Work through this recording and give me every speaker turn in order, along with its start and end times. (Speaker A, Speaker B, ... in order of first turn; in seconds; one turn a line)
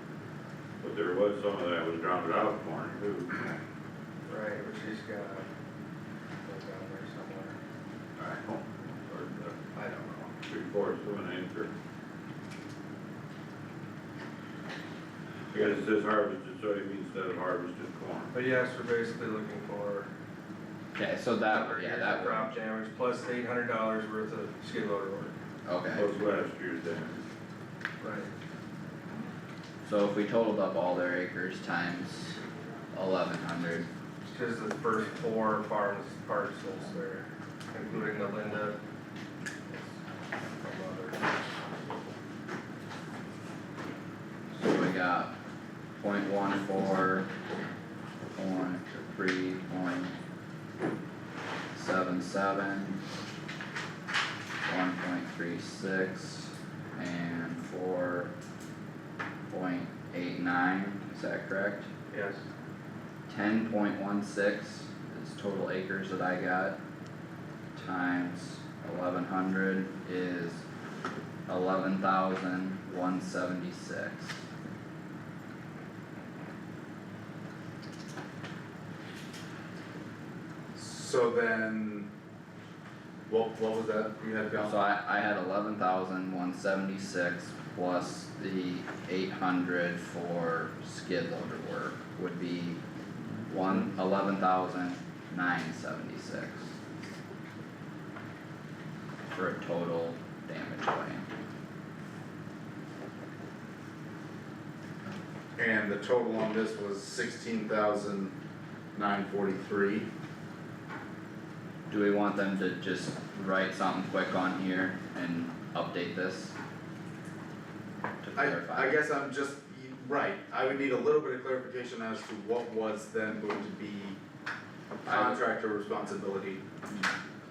Speaker A: 0.8-3.5
Speaker B: 4.3-5.5
Speaker B: 6.5-7.5
Speaker A: 8.2-9.6
Speaker B: 9.8-10.3
Speaker A: 10.4-11.7
Speaker A: 15.5-18.4
Speaker B: 18.4-20.1
Speaker C: 20.9-22.5
Speaker B: 21.6-25.3
Speaker C: 25.6-26.1
Speaker A: 25.9-27.2
Speaker B: 28.0-28.3
Speaker C: 29.9-32.4
Speaker C: 32.9-33.9
Speaker B: 34.3-38.8
Speaker B: 40.6-41.1
Speaker C: 44.5-45.4
Speaker C: 46.0-47.3
Speaker C: 48.3-50.1
Speaker C: 51.8-53.0
Speaker C: 54.7-58.3
Speaker C: 59.5-61.9
Speaker B: 62.1-62.4
Speaker C: 63.3-66.8
Speaker C: 67.8-70.6
Speaker C: 71.5-74.4
Speaker D: 80.7-82.1
Speaker D: 83.3-84.8
Speaker C: 84.6-92.8
Speaker C: 93.5-96.8
Speaker C: 99.3-101.3
Speaker D: 105.6-108.3
Speaker D: 108.9-110.1
Speaker C: 111.9-116.5
Speaker C: 118.2-119.0
Speaker D: 118.3-124.2
Speaker D: 125.0-126.6
Speaker C: 125.1-125.4